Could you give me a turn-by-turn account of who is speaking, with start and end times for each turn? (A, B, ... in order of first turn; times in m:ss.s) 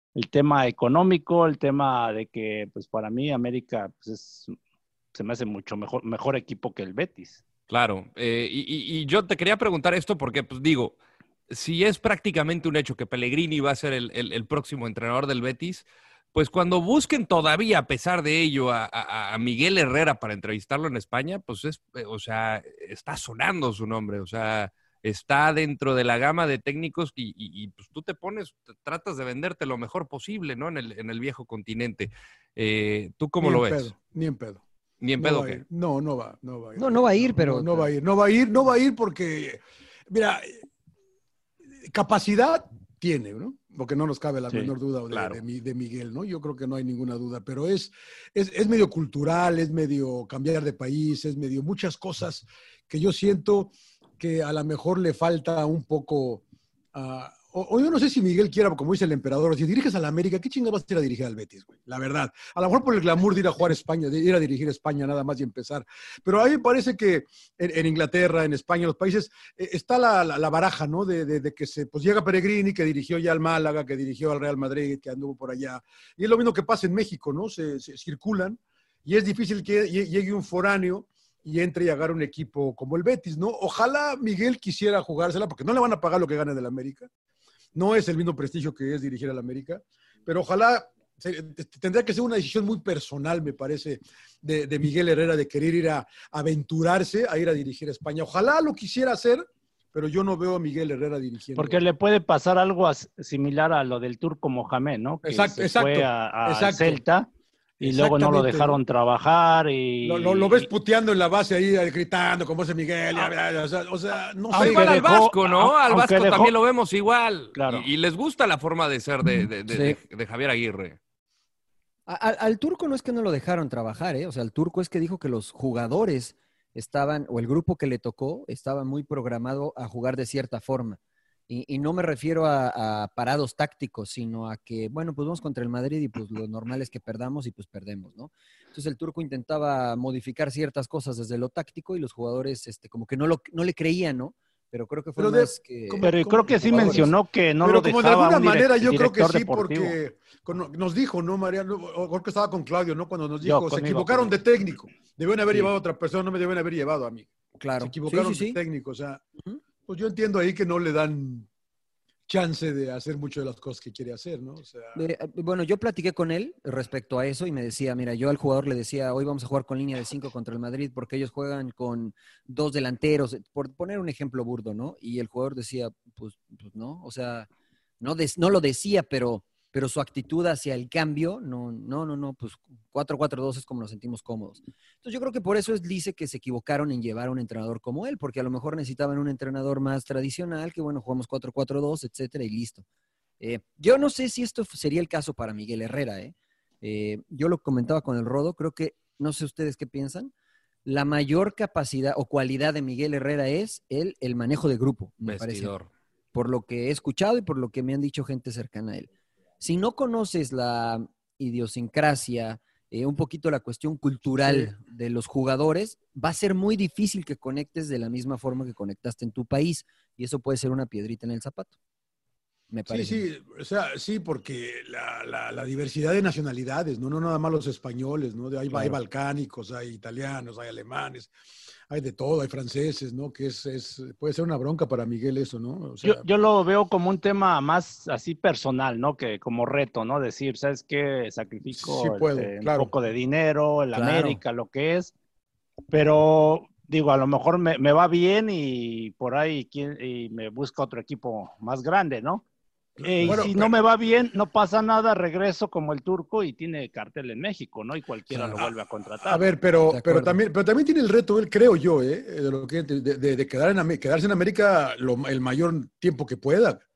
0:00.1-0:04.5 A
0:05.1-0:07.4 A
0:07.7-0:11.0 B
0:11.5-0:33.9 B
0:33.4-0:34.6 C
0:35.0-0:35.6 B
0:35.2-0:40.5 C
0:36.8-0:37.9 D
0:41.9-0:56.4 C
0:45.1-0:45.4 B
0:56.9-1:27.1 C
1:27.7-1:41.8 C
1:41.6-1:47.3 A
1:45.2-1:47.0 C
1:47.8-1:48.8 C
1:47.8-1:50.7 A
1:50.0-1:55.0 C
1:54.5-2:01.0 B
1:54.5-1:56.5 A
1:57.5-1:57.9 A
1:59.7-2:00.0 D
2:02.1-2:27.1 D
2:25.2-2:39.2 C
2:26.0-2:30.0 A
2:33.4-2:34.4 A
2:37.6-2:38.6 D
2:39.8-2:41.5 C
2:42.3-2:45.0 C
2:44.9-2:57.5 D
2:58.0-3:12.8 D
3:13.4-3:20.3 D
3:20.8-3:25.7 D
3:25.2-3:25.9 B
3:26.3-3:29.1 D
3:29.6-3:41.7 D
3:42.7-3:43.2 D
3:42.9-3:51.3 C
3:51.9-3:56.2 C
3:56.0-4:05.1 A
4:01.8-4:02.9 C
4:03.9-4:04.4 D
4:05.9-4:12.4 A
4:13.0-4:13.8 C
4:13.0-4:19.5 A
4:13.2-4:13.5 D
4:19.2-4:26.8 C
4:19.9-4:20.4 D